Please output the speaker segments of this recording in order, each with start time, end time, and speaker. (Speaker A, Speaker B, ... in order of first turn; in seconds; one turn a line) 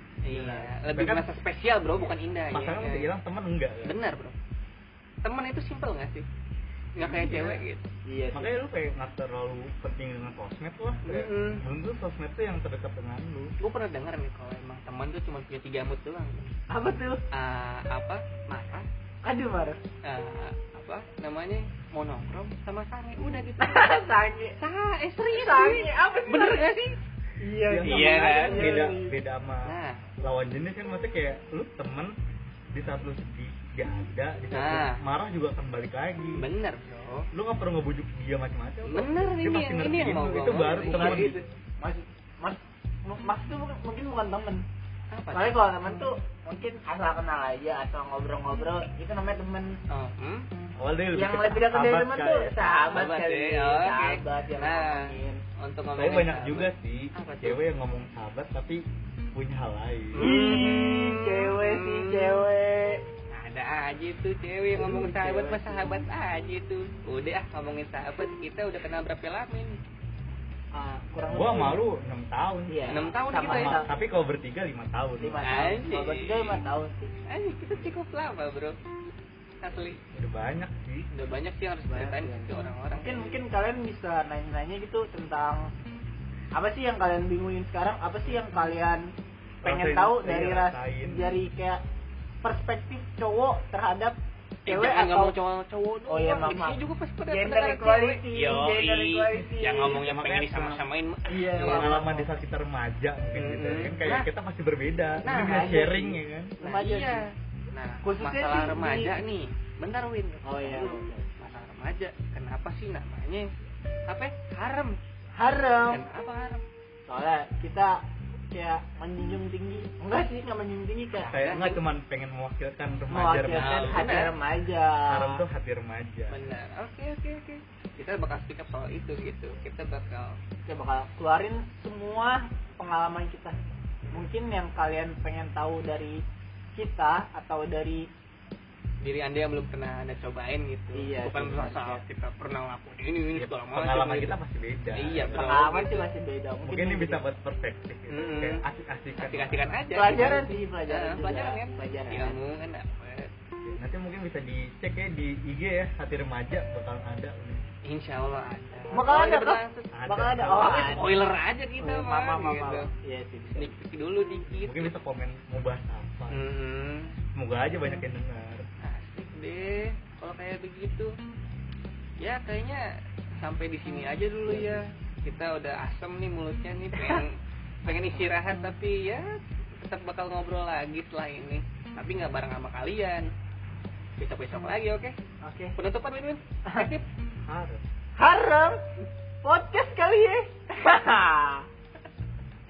Speaker A: 0.2-3.1
Speaker B: 0.3-0.7
Speaker C: 0.8-1.4
Speaker C: 2.5-4.0
Speaker A: 3.8-4.4
Speaker A: 5.2-6.3
Speaker A: 7.0-7.8
Speaker B: 7.1-8.5
Speaker C: 8.3-13.5
Speaker A: 11.1-11.6
Speaker A: 13.6-16.5
Speaker B: 16.7-17.2
Speaker A: 17.3-18.9
Speaker B: 19.2-19.8
Speaker A: 20.0-24.0
Speaker B: 23.6-24.6
Speaker A: 24.6-27.0
Speaker B: 25.3-26.7
Speaker B: 27.4-29.1
Speaker C: 27.6-32.1
Speaker A: 27.8-28.9
Speaker A: 29.7-30.1
Speaker C: 32.7-36.5
Speaker A: 34.5-35.0
Speaker A: 36.4-37.3
Speaker C: 37.3-41.4
Speaker A: 38.9-41.5
Speaker B: 40.9-41.2
Speaker B: 41.8-44.6
Speaker A: 45.1-46.1
Speaker B: 45.3-49.8
Speaker A: 49.9-50.5
Speaker C: 50.8-52.6
Speaker B: 51.1-55.4
Speaker A: 52.8-57.6
Speaker C: 56.0-58.8
Speaker C: 59.3-60.3
Speaker A: 60.1-62.5
Speaker B: 60.2-63.0
Speaker A: 63.3-69.8
Speaker B: 64.8-66.0
Speaker B: 70.7-71.8
Speaker C: 71.3-75.4
Speaker B: 72.7-73.9
Speaker A: 72.9-73.9
Speaker B: 75.2-77.1
Speaker A: 75.4-76.6
Speaker A: 77.3-78.8
Speaker A: 79.6-80.0
Speaker C: 80.1-81.1
Speaker A: 81.1-83.4
Speaker B: 81.9-85.7
Speaker B: 86.5-89.0
Speaker C: 89.6-91.3
Speaker B: 89.6-91.8
Speaker B: 92.4-94.2
Speaker A: 94.7-102.0
Speaker B: 94.7-95.4
Speaker B: 96.1-100.0
Speaker C: 99.9-100.8
Speaker B: 101.3-102.3
Speaker C: 101.6-106.6
Speaker A: 103.3-104.3
Speaker A: 105.2-105.8
Speaker B: 105.2-107.2
Speaker A: 106.6-113.5
Speaker B: 108.0-109.2
Speaker B: 110.4-111.3
Speaker A: 114.1-115.0
Speaker B: 115.4-116.0
Speaker A: 115.9-116.6
Speaker B: 117.1-117.9
Speaker B: 118.5-121.3
Speaker A: 121.1-121.8
Speaker C: 121.3-124.1
Speaker B: 123.1-125.4
Speaker A: 123.5-124.4
Speaker C: 125.1-126.5
Speaker A: 126.3-130.4
Speaker B: 130.7-133.6
Speaker B: 134.1-136.2
Speaker B: 136.8-138.1
Speaker A: 139.0-144.4
Speaker B: 140.9-142.0
Speaker C: 143.3-145.7
Speaker A: 144.9-146.1
Speaker B: 145.3-147.2
Speaker C: 146.6-149.7
Speaker A: 148.1-148.6
Speaker A: 149.2-153.3
Speaker B: 149.9-152.4
Speaker C: 153.6-157.6
Speaker A: 157.8-159.9
Speaker B: 158.9-161.1
Speaker C: 159.9-160.9
Speaker A: 160.5-162.9
Speaker B: 161.8-163.8
Speaker A: 163.6-165.0
Speaker C: 164.6-166.5
Speaker A: 166.3-167.1
Speaker C: 167.4-168.6
Speaker A: 168.8-171.1
Speaker A: 172.2-172.8
Speaker A: 173.4-183.3
Speaker B: 174.5-174.8
Speaker B: 177.0-177.2
Speaker A: 184.2-185.2
Speaker B: 185.4-185.8
Speaker A: 185.8-187.1
Speaker B: 186.7-186.9
Speaker C: 187.5-187.8
Speaker B: 188.2-188.8
Speaker B: 189.4-191.7